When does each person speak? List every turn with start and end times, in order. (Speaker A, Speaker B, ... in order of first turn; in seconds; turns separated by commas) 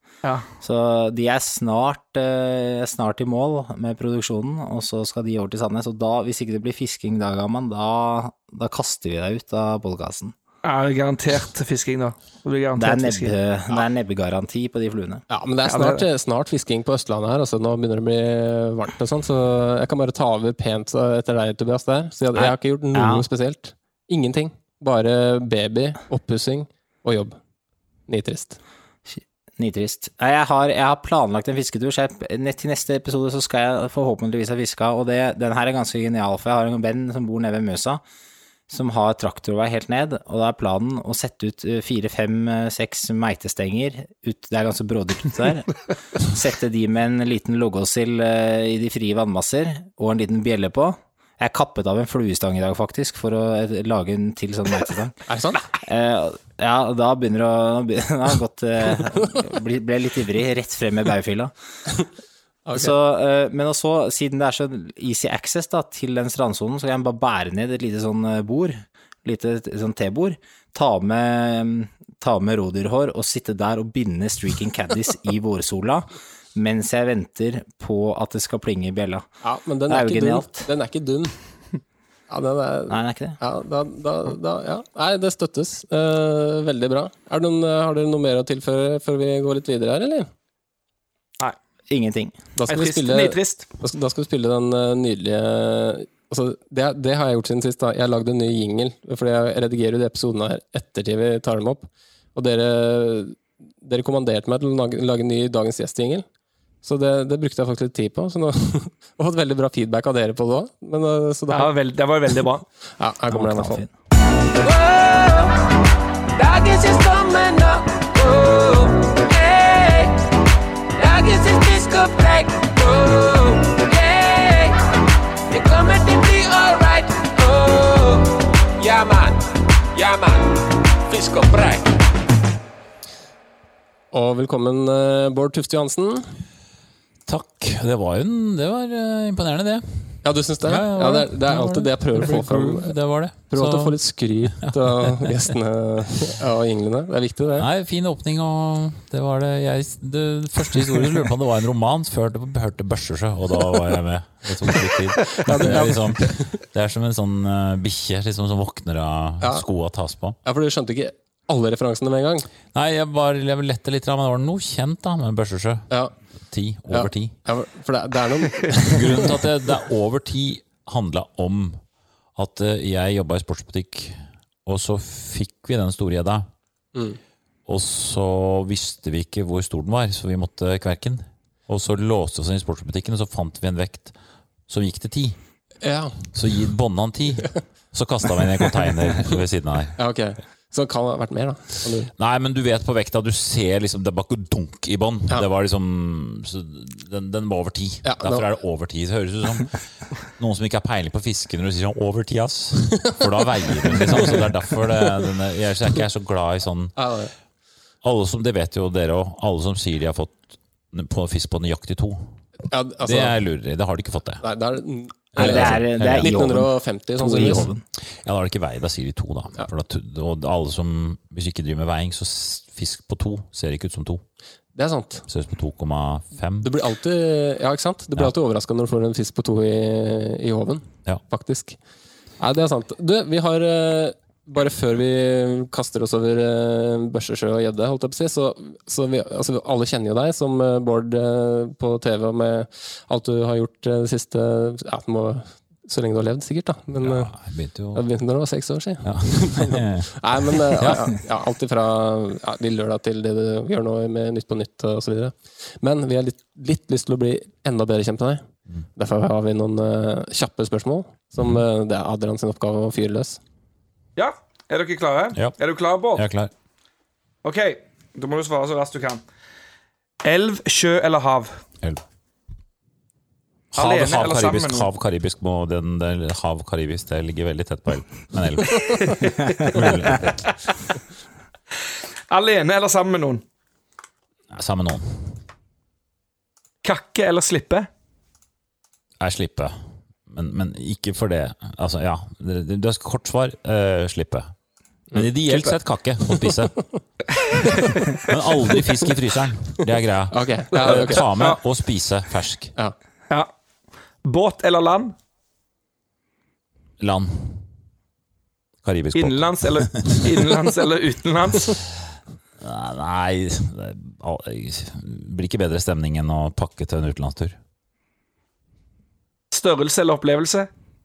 Speaker A: 0.6-10.3, Speaker B: 10.6-13.3, Speaker A: 12.8-15.2, Speaker C: 15.3-27.4, Speaker B: 15.7-16.1, Speaker A: 22.3-23.2, Speaker C: 28.1-28.6, Speaker A: 29.1-38.0, Speaker A: 38.7-55.2, Speaker C: 55.3-55.6, Speaker A: 55.8-61.5, Speaker C: 62.7-62.9, Speaker A: 62.7-79.3, Speaker C: 79.4-81.3, Speaker A: 79.9-80.7, Speaker C: 82.3-90.3, Speaker A: 82.9-83.4, Speaker A: 91.9-92.4, Speaker C: 92.6-106.2, Speaker B: 92.7-93.7, Speaker C: 106.8-111.7, Speaker B: 111.5-112.7, Speaker C: 113.0-113.8, Speaker A: 113.3-113.9, Speaker D: 114.6-115.6, Speaker D: 116.3-120.2, Speaker D: 121.0-124.8, Speaker D: 125.5-131.9, Speaker C: 134.1-136.3, Speaker E: 137.3-144.0, Speaker C: 140.2-142.9, Speaker C: 143.5-147.7, Speaker E: 144.6-145.2, Speaker E: 147.6-160.4, Speaker C: 155.3-156.3, Speaker C: 160.4-162.5, Speaker E: 162.7-165.9, Speaker E: 166.4-167.3, Speaker C: 166.9-169.3, Speaker E: 168.9-171.8, Speaker E: 172.3-176.5, Speaker E: 177.7-184.1, Speaker E: 184.7-185.4, Speaker C: 185.8-186.3, Speaker E: 186.3-190.0, Speaker C: 190.0-192.1, Speaker E: 192.2-207.0, Speaker C: 198.1-198.4, Speaker C: 203.9-204.3, Speaker C: 207.0-207.3, Speaker E: 208.0-212.4, Speaker C: 212.7-213.4, Speaker E: 213.0-214.4, Speaker C: 214.4-217.7, Speaker E: 215.4-216.7, Speaker A: 215.4-217.8, Speaker E: 217.4-224.2, Speaker C: 224.8-225.2, Speaker E: 225.3-226.7, Speaker C: 226.6-231.8, Speaker C: 232.4-247.3, Speaker E: 247.0-248.0, Speaker C: 247.9-258.4, Speaker E: 249.0-251.2, Speaker C: 259.0-263.4, Speaker B: 264.2-266.2, Speaker E: 266.1-266.5, Speaker B: 267.4-269.2, Speaker B: 270.2-271.6, Speaker B: 273.7-274.9, Speaker E: 273.8-280.5, Speaker B: 279.1-279.6, Speaker B: 282.3-283.4, Speaker E: 284.5-285.4, Speaker B: 286.8-287.9, Speaker E: 289.2-294.5, Speaker E: 295.1-296.9, Speaker E: 298.3-302.7, Speaker C: 300.3-301.3, Speaker B: 300.8-301.6, Speaker B: 304.2-305.2, Speaker E: 307.0-307.7, Speaker E: 308.8-310.4, Speaker B: 309.1-311.8, Speaker E: 312.6-317.6, Speaker B: 319.5-320.7